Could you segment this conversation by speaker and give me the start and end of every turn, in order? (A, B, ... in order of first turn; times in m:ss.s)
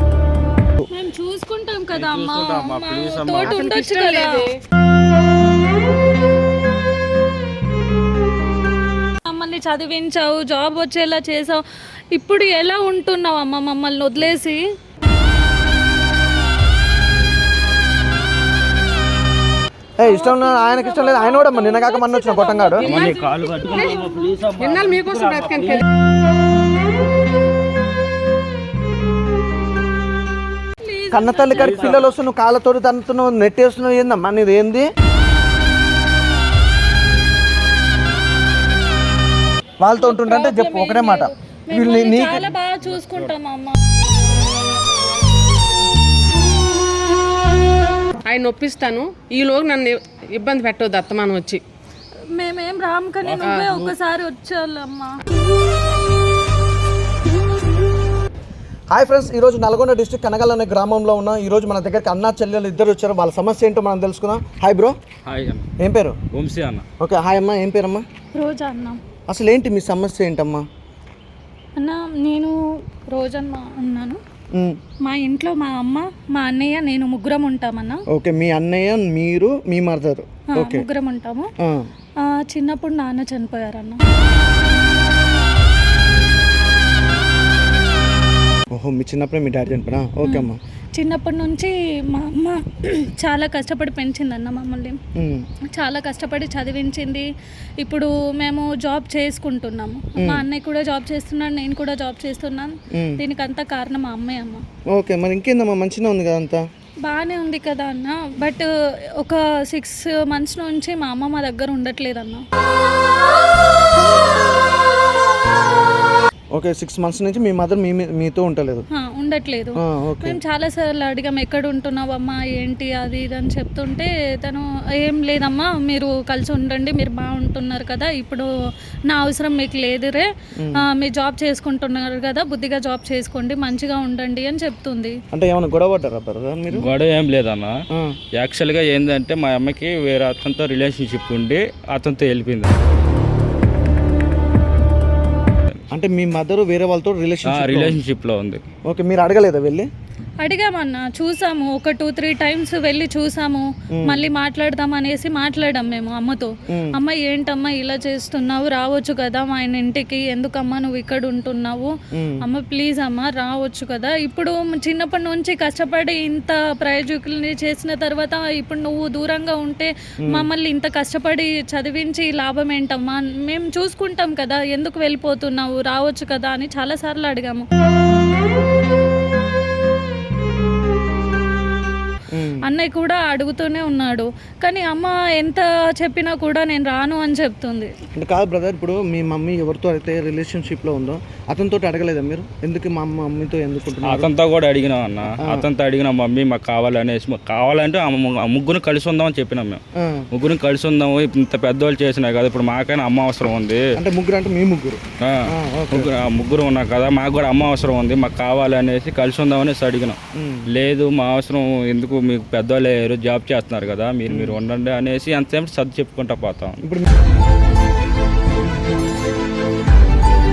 0:00.9-0:04.4 A
0:01.9-0:03.6 B
0:03.4-0:04.5 C
0:09.2-0:11.6 A
0:12.1-0:14.6 A
0:20.0-0:22.9 D
0:20.0-0:24.3 A
0:22.8-0:25.8 B
0:23.7-0:24.0 C
0:24.6-0:25.8 C
0:30.8-0:31.9 A
0:31.1-0:34.8 D
0:31.5-0:32.1 B
0:39.8-0:42.5 D
0:40.0-0:43.8 A
0:42.8-0:43.3 B
0:48.2-0:51.6 C
0:52.3-0:55.1 A
0:53.2-0:53.6 B
0:53.4-0:53.9 C
0:58.9-1:05.0 D
1:05.2-1:05.7 B
1:05.8-1:06.2 D
1:06.3-1:06.8 B
1:07.0-1:08.0 D
1:08.3-1:09.0 A
1:09.3-1:10.6 D
1:11.8-1:12.5 A
1:13.1-1:14.2 A
1:15.0-1:18.0 A
1:18.1-1:20.8 D
1:20.5-1:21.5 A
1:21.6-1:21.9 D
1:22.2-1:24.0 A
1:28.7-1:30.6 D
1:30.2-1:35.0 A
1:35.2-1:35.4 D
1:35.7-1:37.2 A
1:37.8-1:44.6 A
1:40.2-1:40.4 D
1:42.9-1:43.2 D
1:44.9-1:46.6 D
1:47.0-1:48.6 A
1:49.2-1:52.4 A
1:56.5-1:58.8 D
1:58.9-2:08.4 A
1:59.8-2:00.4 D
2:09.1-2:15.2 A
2:15.3-2:16.9 D
2:16.7-2:17.7 B
2:18.4-2:22.7 B
2:25.9-2:28.0 D
2:27.5-2:28.6 B
2:28.9-2:29.9 D
2:30.4-2:41.9 A
2:33.9-2:34.2 D
2:42.1-2:42.4 D
2:42.4-2:57.6 A
3:02.3-3:02.6 D
3:02.6-3:07.9 A
3:08.2-3:14.3 D
3:14.0-3:19.8 B
3:15.4-3:15.7 D
3:20.0-3:20.3 D
3:20.3-3:23.8 B
3:23.9-3:26.1 D
3:25.2-3:30.2 B
3:30.3-3:30.7 D
3:30.7-3:36.8 B
3:34.3-3:34.6 D
3:36.8-3:37.0 D